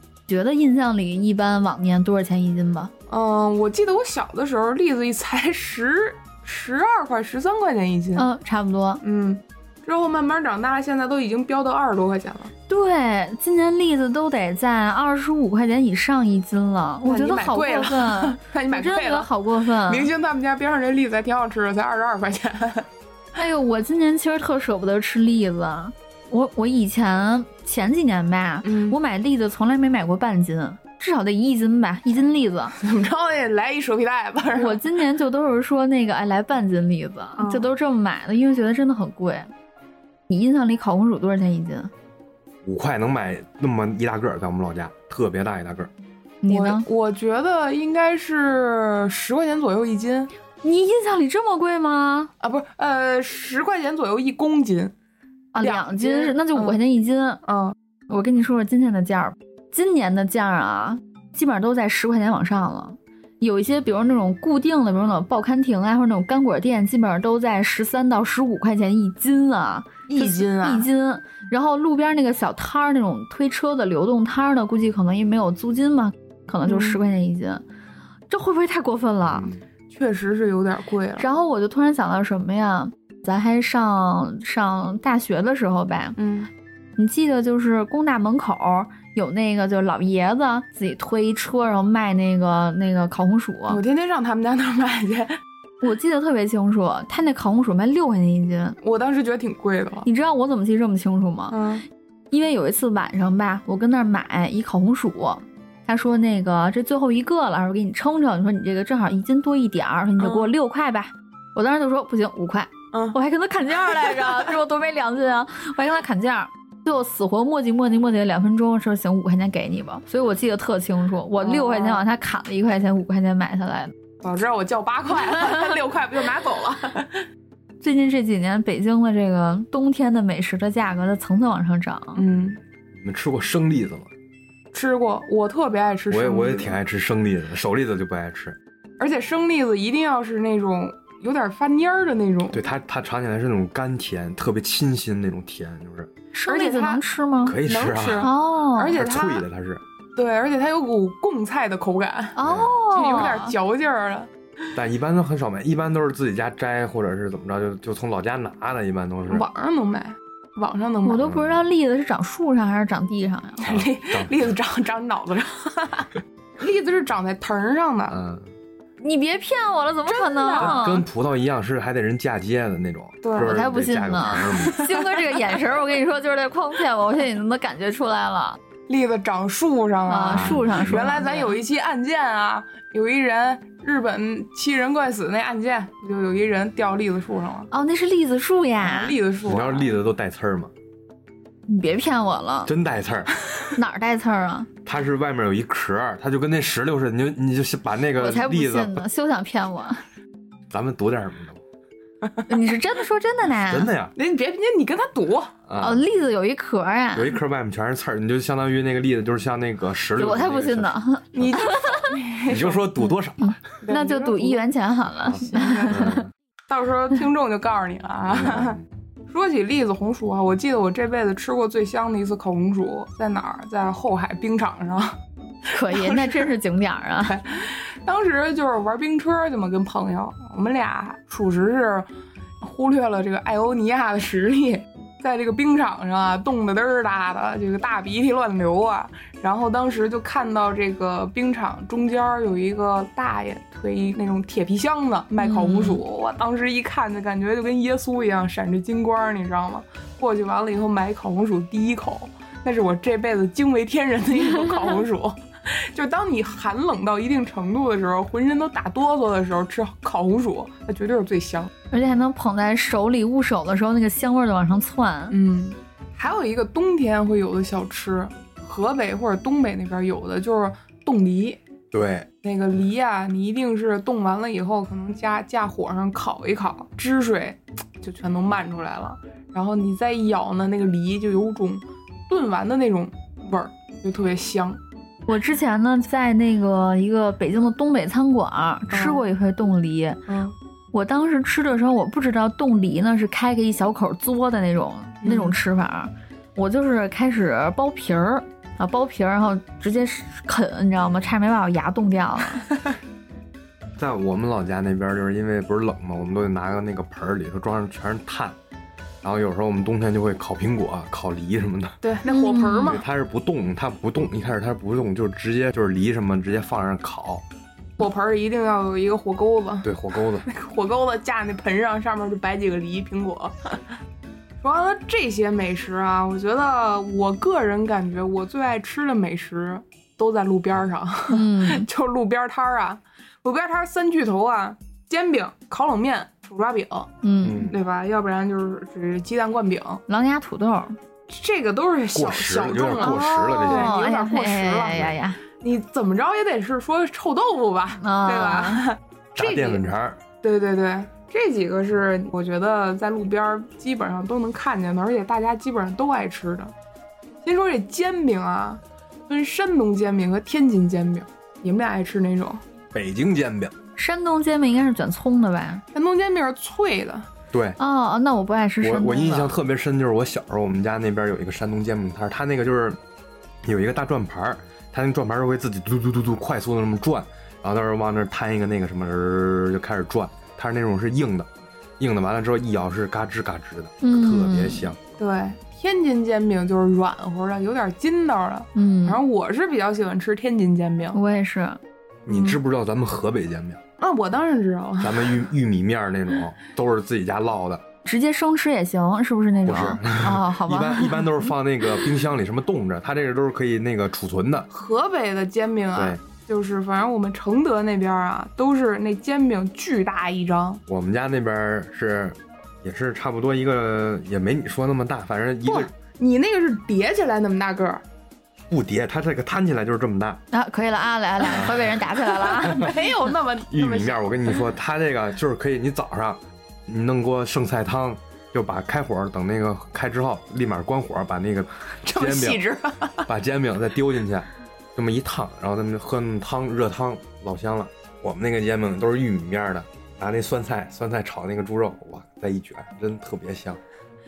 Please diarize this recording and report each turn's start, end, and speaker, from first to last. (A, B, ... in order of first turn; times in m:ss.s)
0:00.3-0:02.9 A
0:03.1-0:08.3 B
0:08.2-0:09.0 A
0:09.0-0:12.5 B
0:12.7-0:20.1 A
0:17.0-0:19.3 B
0:19.9-0:22.9 B
0:23.4-0:32.7 A
0:28.6-0:29.0 B
0:32.8-0:34.8 B
0:34.6-0:39.5 A
0:37.4-0:37.7 B
0:40.3-0:41.9 A
0:42.6-0:45.9 C
0:46.4-0:46.9 A
0:46.5-0:50.3 B
0:50.6-0:52.3 A
0:52.4-0:54.9 B
0:55.6-0:57.4 A
0:55.6-0:56.8 B
0:57.4-0:57.8 B
0:58.1-1:17.6 A
1:10.1-1:10.9 B
1:16.7-1:17.0 B
1:18.3-1:19.5 A
1:19.3-1:19.6 C
1:19.9-1:21.3 B
1:21.2-1:26.2 A
1:26.2-1:26.5 B
1:27.0-1:33.8 A
1:33.7-1:35.4 B
1:35.8-1:38.8 A
1:38.8-1:40.1 B
1:40.0-1:41.6 A
1:41.5-1:41.8 B
1:42.3-2:03.9 A
1:50.2-1:50.5 B
2:01.4-2:02.0 B
2:04.2-2:07.3 B
2:07.8-2:12.2 A
2:12.2-2:12.6 B
2:12.9-2:14.1 C
2:14.7-2:16.8 B
2:16.1-2:18.6 C
2:19.0-2:22.6 B
2:22.5-2:26.1 C
2:26.3-2:27.6 A
2:26.5-2:27.0 B
2:27.4-2:28.3 C
2:27.7-2:29.4 B
2:28.2-2:29.0 A
2:28.9-2:29.8 C
2:30.2-2:34.3 B
2:32.4-2:33.5 A
2:32.4-2:32.7 C
2:34.8-2:39.5 C
2:39.3-2:41.3 B
2:41.0-2:43.8 A
2:41.3-2:41.6 C
2:43.6-2:48.2 B
2:43.7-2:44.5 C
2:48.1-2:48.5 C
2:49.0-2:51.0 A
2:50.1-2:50.9 B
2:50.6-2:54.8 C
2:53.2-2:53.6 B
2:53.4-2:58.6 A
2:54.8-2:55.4 B
2:58.9-3:07.7 B
3:00.1-3:01.6 A
3:00.3-3:01.0 C
3:07.7-3:09.2 A
3:08.8-3:09.9 B
3:09.4-3:10.7 C
3:11.7-3:12.7 A
3:12.6-3:13.3 C
3:13.7-3:14.7 A
3:14.8-3:19.0 C
3:18.2-3:20.0 A
3:20.7-3:21.6 C
3:22.5-3:23.9 A
3:23.7-3:24.1 C
3:24.2-3:25.5 B
3:25.7-3:26.0 C
3:25.8-3:27.4 A
3:27.1-3:31.6 C
3:30.2-3:32.2 A
3:31.3-3:33.1 B
3:32.5-3:33.5 C
3:33.4-3:36.2 A
3:33.8-3:34.6 B
3:35.3-3:36.1 B
3:35.3-3:36.3 C
3:36.7-3:45.2 B
3:38.3-3:38.8 C
3:45.7-3:47.4 A
3:45.8-3:46.5 B
3:47.2-3:52.1 B
3:52.6-4:21.7 B
4:05.4-4:06.0 A
4:21.9-4:25.4 A
4:25.3-4:31.6 B
4:31.9-4:32.3 C
4:32.4-4:44.8 B
4:45.3-4:50.2 A
4:48.9-4:49.2 B
4:50.3-4:50.6 B
4:50.9-5:02.7 A
4:55.2-4:55.6 B
5:04.0-5:08.6 C
5:09.2-5:12.0 C
5:12.0-5:13.0 B
5:12.3-5:13.0 A
5:12.8-5:17.4 C
5:18.0-5:19.9 B
5:19.8-5:20.5 C
5:20.4-5:23.8 B
5:24.6-5:37.1 B
5:31.3-5:31.9 A
5:37.2-5:37.7 A
5:37.4-5:37.8 C
5:37.6-5:40.0 B
5:40.1-5:41.0 A
5:41.3-5:49.8 B
5:42.2-5:44.0 C
5:43.0-5:45.4 A
5:48.0-5:48.9 A
5:49.4-5:50.2 C
5:50.4-5:56.7 B
5:57.4-6:02.6 B
6:02.9-6:03.7 C
6:04.0-6:05.8 A
6:05.9-6:07.3 B
6:07.5-6:07.8 C
6:07.8-6:09.5 A
6:08.8-6:13.0 C
6:13.6-6:21.5 C
6:22.0-6:25.0 C
6:24.0-6:24.9 A
6:25.2-6:31.2 B
6:28.8-6:29.2 A
6:31.1-6:31.8 A
6:32.3-6:33.8 C
6:32.3-6:32.6 B
6:34.0-6:35.5 B
6:35.0-6:37.8 C
6:38.0-6:41.5 A
6:39.7-6:44.7 C
6:44.7-6:50.8 B
6:46.0-6:46.2 C
6:50.9-6:55.9 C
6:55.6-6:58.0 B
6:58.7-7:00.4 C
7:00.5-7:03.0 A
7:01.4-7:03.0 C
7:02.4-7:04.3 B
7:03.7-7:12.6 C
7:12.0-7:13.3 B
7:13.3-7:23.8 C